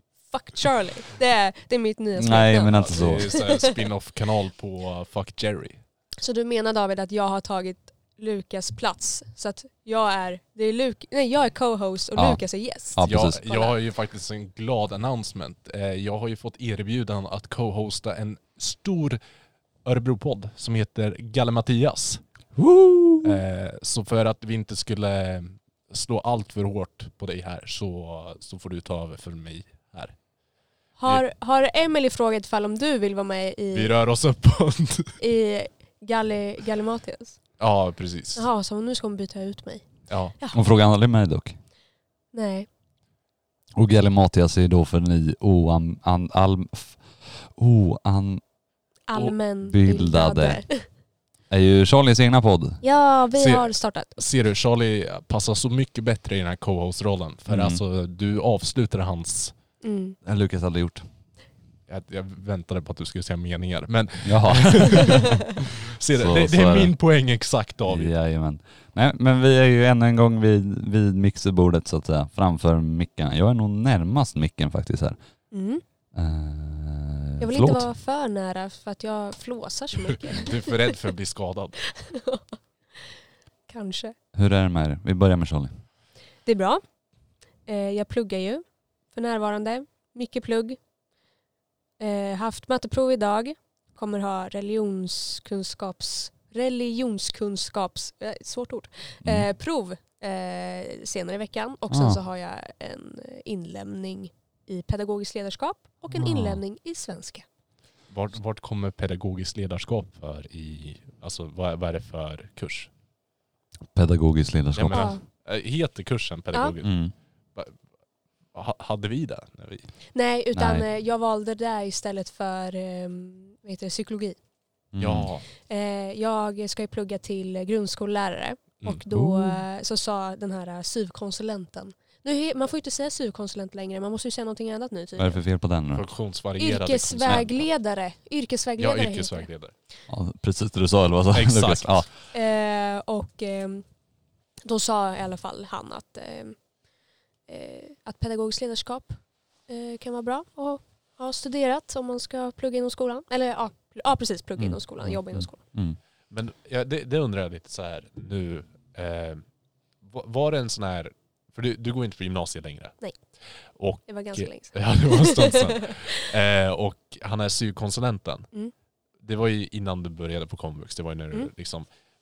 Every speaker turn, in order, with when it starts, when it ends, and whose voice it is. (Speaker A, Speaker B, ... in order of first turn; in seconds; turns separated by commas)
Speaker A: 0.3-3.7, Speaker B: 2.2-3.3, Speaker C: 2.7-5.8, Speaker A: 6.2-13.7, Speaker B: 12.2-12.4, Speaker B: 12.9-13.4, Speaker C: 13.0-19.2, Speaker C: 19.8-22.2, Speaker B: 22.6-23.4, Speaker C: 23.2-30.1, Speaker A: 31.0-33.9, Speaker C: 33.7-35.2, Speaker A: 35.2-37.4, Speaker C: 37.6-38.5, Speaker A: 38.4-39.8, Speaker C: 40.1-40.3, Speaker B: 40.5-41.6, Speaker A: 42.3-42.7, Speaker B: 43.8-48.4, Speaker A: 49.1-50.9, Speaker B: 49.2-50.6, Speaker B: 51.5-52.8, Speaker A: 52.8-54.2, Speaker C: 53.4-59.5, Speaker B: 57.5-57.8, Speaker A: 59.8-60.2, Speaker B: 60.2-61.0, Speaker C: 61.9-68.1, Speaker B: 64.2-65.4, Speaker B: 66.1-66.9, Speaker B: 67.9-75.2, Speaker A: 75.5-75.8, Speaker B: 76.1-77.9, Speaker A: 77.4-80.7, Speaker C: 80.1-81.8, Speaker A: 81.9-82.6, Speaker A: 83.7-84.1, Speaker B: 84.3-85.8, Speaker A: 86.5-86.8, Speaker A: 87.7-90.8, Speaker A: 92.0-107.4, Speaker B: 101.9-102.2, Speaker B: 106.1-106.6, Speaker C: 108.1-112.9, Speaker B: 113.9-115.1, Speaker C: 114.7-116.9, Speaker A: 114.9-115.2, Speaker B: 116.8-117.1, Speaker C: 118.5-119.9, Speaker A: 120.1-124.4, Speaker B: 120.5-120.8, Speaker B: 124.9-125.3, Speaker C: 125.0-125.5, Speaker A: 125.7-135.4, Speaker B: 129.1-129.6, Speaker B: 135.2-136.1, Speaker C: 135.9-137.7, Speaker A: 136.6-139.5, Speaker C: 138.8-139.7, Speaker B: 140.1-142.1, Speaker C: 141.3-142.1, Speaker A: 142.3-143.8, Speaker A: 144.7-146.6, Speaker A: 147.5-155.6, Speaker B: 154.6-156.0, Speaker C: 156.3-159.4, Speaker C: 160.0-162.9, Speaker C: 163.7-168.5, Speaker A: 164.1-166.2, Speaker C: 169.2-171.9